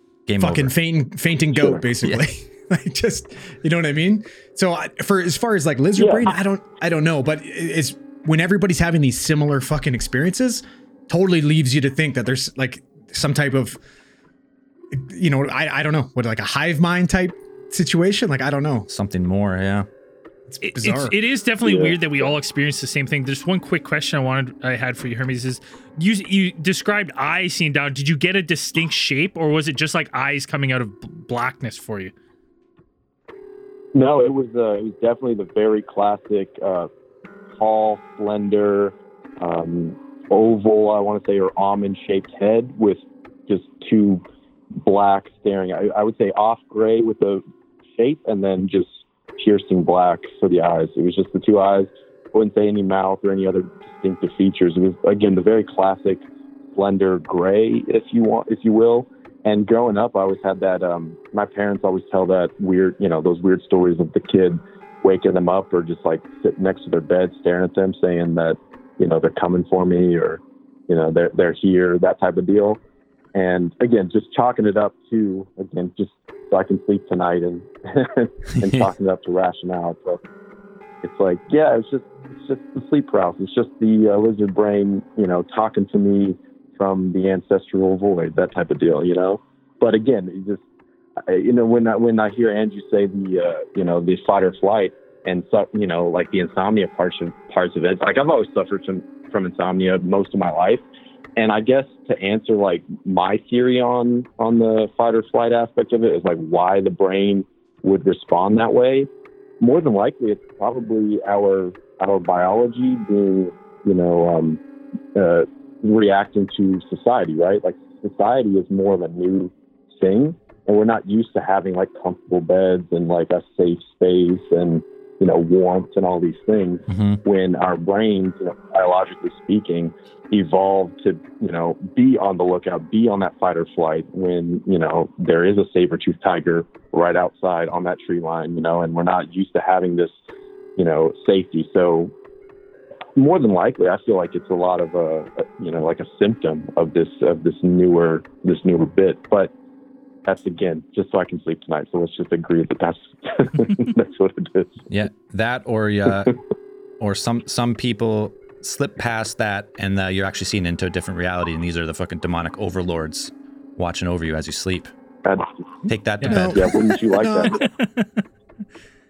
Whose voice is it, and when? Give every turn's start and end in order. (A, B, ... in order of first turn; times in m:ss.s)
0:00.2-0:00.7 A
0:00.4-0:13.8 B
0:14.9-0:18.9 B
0:18.9-0:19.9 A
0:20.5-0:21.2 B
0:20.6-0:32.1 C
0:33.9-0:36.8 D
0:37.6-0:38.9 D
0:39.4-0:43.0 D
0:43.5-0:44.2 D
0:44.8-0:47.4 D
0:48.0-0:48.8 D
0:49.4-0:56.2 D
0:50.2-0:50.6 E
0:53.6-0:54.4 E
0:56.8-1:04.6 D
0:57.0-0:57.4 E
1:01.8-1:02.2 E
1:05.1-1:10.4 D
1:05.1-1:06.4 E
1:07.5-1:08.2 E
1:10.9-1:12.8 D
1:11.7-1:12.3 E
1:13.4-1:16.1 D
1:14.3-1:15.2 E
1:16.5-1:17.4 E
1:16.6-1:17.6 D
1:18.6-1:19.3 E
1:18.9-1:20.1 D
1:21.1-1:30.6 D
1:31.4-1:40.8 D
1:31.7-1:32.9 E
1:39.0-1:39.9 E
1:41.4-1:49.0 D
1:45.3-1:45.6 E
1:46.2-1:46.6 E
1:48.1-1:48.5 E
1:49.6-1:51.6 D
1:50.0-1:53.2 E
1:52.3-1:54.5 D
1:55.8-1:59.5 E
1:56.0-1:59.4 D
2:00.0-2:06.7 E
2:00.2-2:03.6 D
2:04.2-2:04.5 D
2:05.6-2:06.7 D
2:06.9-2:07.2 A
2:07.3-2:20.1 E
2:07.6-2:08.3 D
2:08.9-2:09.7 D
2:10.5-2:19.6 D
2:20.8-2:22.1 E
2:20.8-2:22.0 D
2:23.2-2:29.5 E
2:23.2-2:25.2 D
2:25.9-2:29.2 D
2:30.3-2:33.0 E
2:30.4-2:31.7 D
2:33.8-2:34.2 E
2:34.9-2:36.3 A
2:37.0-2:44.9 A
2:45.9-2:46.7 A
2:46.2-2:47.6 B
2:46.6-2:47.5 E
2:47.5-2:48.2 C